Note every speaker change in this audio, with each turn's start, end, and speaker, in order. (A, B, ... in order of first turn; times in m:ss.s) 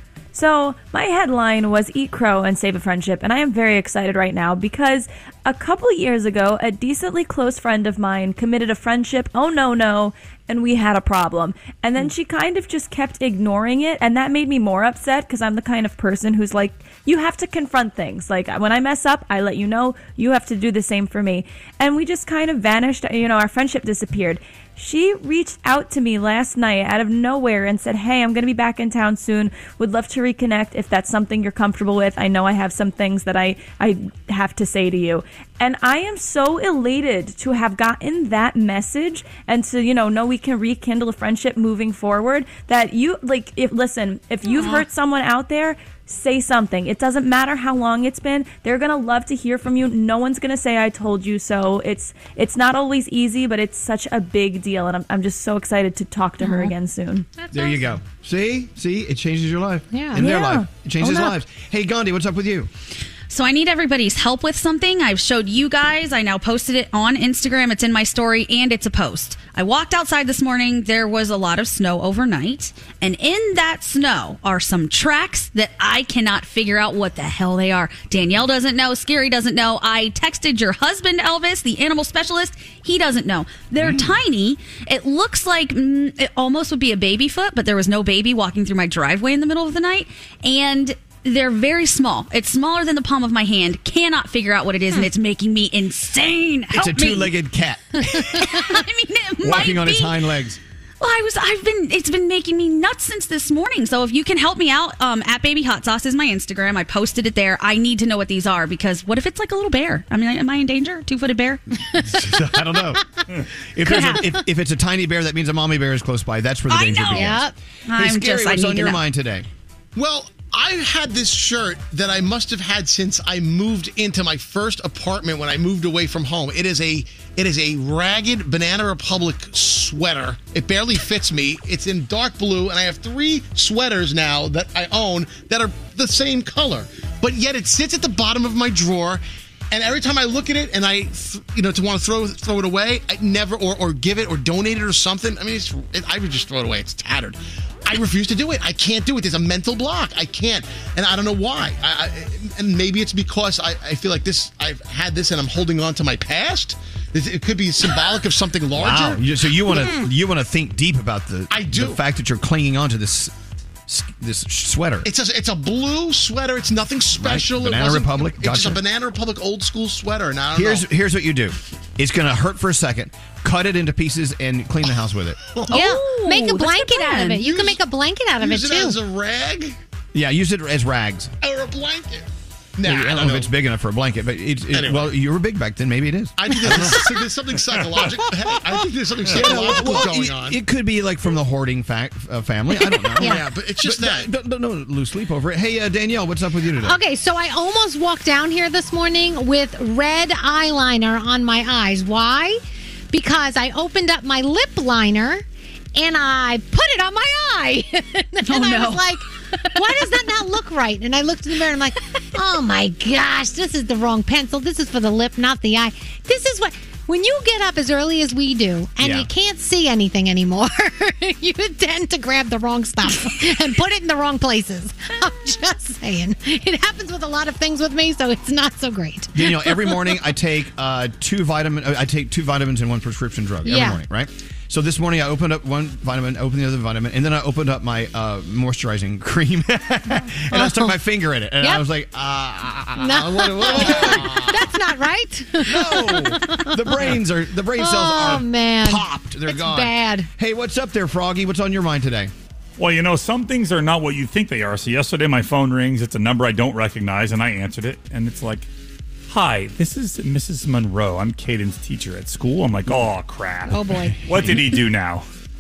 0:00.3-0:57.3 A
0:56.4-0:56.7 B
0:57.4-0:57.8 B
0:57.5-1:02.7 C
0:59.9-1:00.3 B
1:00.2-1:00.7 A
1:03.3-1:37.3 D
1:23.8-1:24.1 C
1:36.7-1:38.6 C
1:38.2-1:40.2 D
1:39.4-1:40.6 C
1:41.0-1:51.6 D
1:52.0-1:53.0 C
1:53.7-1:59.5 C
1:53.8-1:54.4 B
1:53.9-1:54.2 D
1:56.7-1:59.0 D
1:57.1-1:57.5 B
1:59.9-2:39.2 E
2:38.7-2:43.3 C
2:41.5-2:42.0 E
2:43.9-2:45.1 C
2:45.0-2:50.8 E
2:47.2-2:48.8 C
2:50.5-2:55.4 C
2:55.7-2:57.5 D
2:55.7-2:59.0 B
2:57.4-2:57.8 E
2:58.4-2:59.8 E
3:00.1-3:01.3 C
3:01.4-3:02.2 E
3:02.8-3:03.5 E
3:02.8-3:07.2 C
3:04.7-3:05.1 E
3:06.4-3:10.6 E
3:09.3-3:17.0 C
3:12.8-3:13.4 B
3:13.2-3:14.3 E
3:16.8-3:22.6 B
3:23.1-3:25.4 B
3:25.9-3:50.2 B
3:28.4-3:29.1 D
3:29.9-3:30.2 D
3:39.0-3:39.3 C
3:49.3-4:04.7 C
3:53.6-3:54.0 B
4:00.5-4:01.0 B
4:01.6-4:01.8 B
4:03.0-4:07.2 B
4:05.6-4:12.3 C
4:07.7-4:10.3 B
4:12.8-4:18.7 F
4:19.3-4:25.2 F
4:23.7-4:24.4 B